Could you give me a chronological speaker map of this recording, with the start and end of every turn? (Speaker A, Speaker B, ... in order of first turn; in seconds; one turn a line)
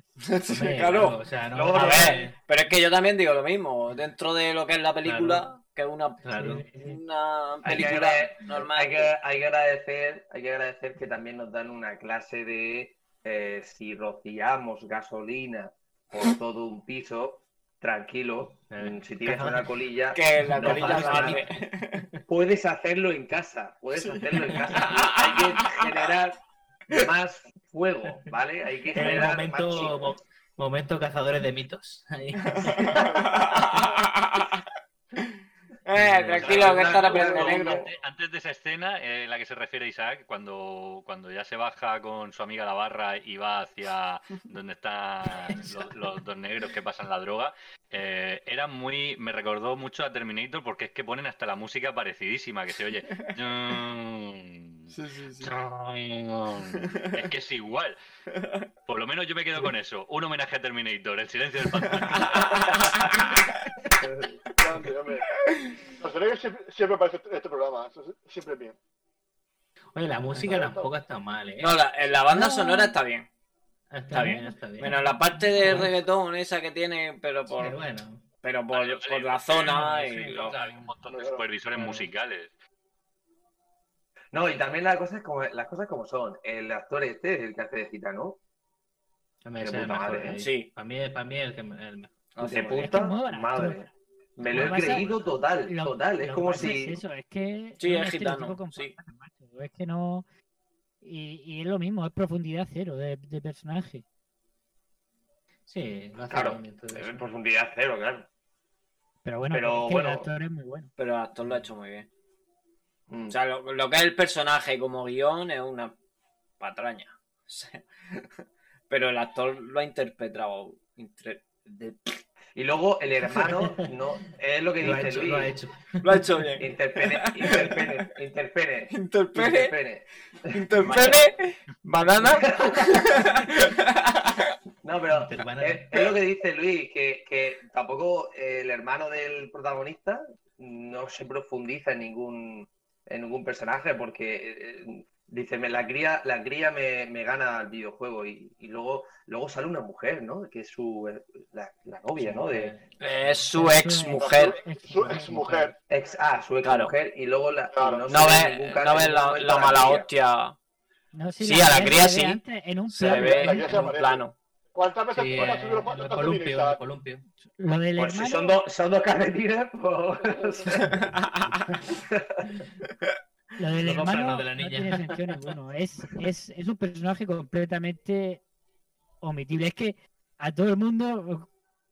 Speaker A: 0.2-1.2
Speaker B: 0.5-2.4
Speaker C: 1.5-2.2
Speaker A: 1.7-9.1
Speaker B: 5.0-5.5
Speaker B: 6.2-6.7
Speaker D: 6.3-7.0
Speaker C: 7.6-21.4
Speaker B: 18.7-19.7
Speaker A: 20.1-22.0
Speaker B: 20.4-22.2
Speaker C: 22.3-26.4
Speaker A: 24.0-26.1
Speaker C: 26.9-30.0
Speaker B: 28.9-33.0
Speaker A: 32.6-34.6
Speaker E: 32.9-34.0
Speaker A: 35.9-37.9
Speaker B: 36.0-36.8
Speaker C: 36.3-37.9
Speaker F: 36.6-58.0
Speaker B: 45.5-45.9
Speaker A: 54.9-55.5
Speaker A: 56.7-57.1
Speaker A: 58.3-58.6
Speaker F: 58.9-63.2
Speaker A: 61.9-63.5
Speaker B: 63.3-63.9
Speaker C: 64.0-64.3
Speaker E: 64.6-65.3
Speaker A: 65.5-65.8
Speaker E: 66.0-68.8
Speaker B: 69.9-71.8
Speaker E: 70.5-70.9
Speaker A: 71.6-73.3
Speaker D: 72.3-73.0
Speaker B: 73.9-75.0
Speaker A: 74.1-77.8
Speaker D: 74.2-75.9
Speaker B: 75.5-76.0
Speaker B: 77.5-78.2
Speaker A: 78.4-80.6
Speaker F: 78.7-82.5
Speaker E: 81.1-81.4
Speaker B: 81.8-82.1
Speaker C: 84.3-88.4
Speaker B: 89.4-92.8
Speaker C: 89.6-90.3
Speaker A: 90.4-90.7
Speaker A: 92.4-92.9
Speaker C: 92.4-97.0
Speaker D: 92.7-93.9
Speaker B: 94.4-95.5
Speaker D: 94.4-95.1
Speaker D: 95.7-100.2
Speaker A: 97.8-98.9
Speaker D: 101.0-104.0
Speaker B: 105.7-107.3
Speaker C: 106.3-108.3
Speaker D: 109.2-110.9
Speaker C: 109.5-110.3
Speaker A: 111.0-112.1
Speaker C: 113.1-113.3
Speaker A: 113.3-115.9
Speaker A: 116.6-118.3
Speaker A: 118.9-122.1
Speaker C: 122.5-125.5
Speaker B: 123.5-123.9
Speaker B: 124.8-126.4
Speaker A: 126.0-127.9
Speaker C: 126.6-131.1
Speaker A: 128.9-129.8
Speaker A: 130.5-134.5
Speaker F: 130.8-131.2
Speaker C: 132.4-132.8
Speaker C: 134.8-152.7
Speaker B: 135.1-136.0
Speaker B: 152.2-153.5
Speaker A: 153.0-154.6
Speaker D: 153.5-155.7
Speaker E: 154.1-155.7
Speaker C: 155.9-160.1
Speaker A: 156.6-156.9
Speaker E: 157.7-158.1
Speaker A: 158.1-160.6
Speaker D: 161.1-163.9
Speaker A: 161.4-164.3
Speaker E: 163.0-164.2
Speaker E: 164.7-166.8
Speaker B: 165.1-167.2
Speaker D: 167.6-168.6
Speaker C: 168.0-170.8
Speaker A: 170.8-171.3
Speaker C: 171.9-172.5
Speaker D: 173.6-178.4
Speaker B: 173.8-175.4
Speaker D: 179.2-181.5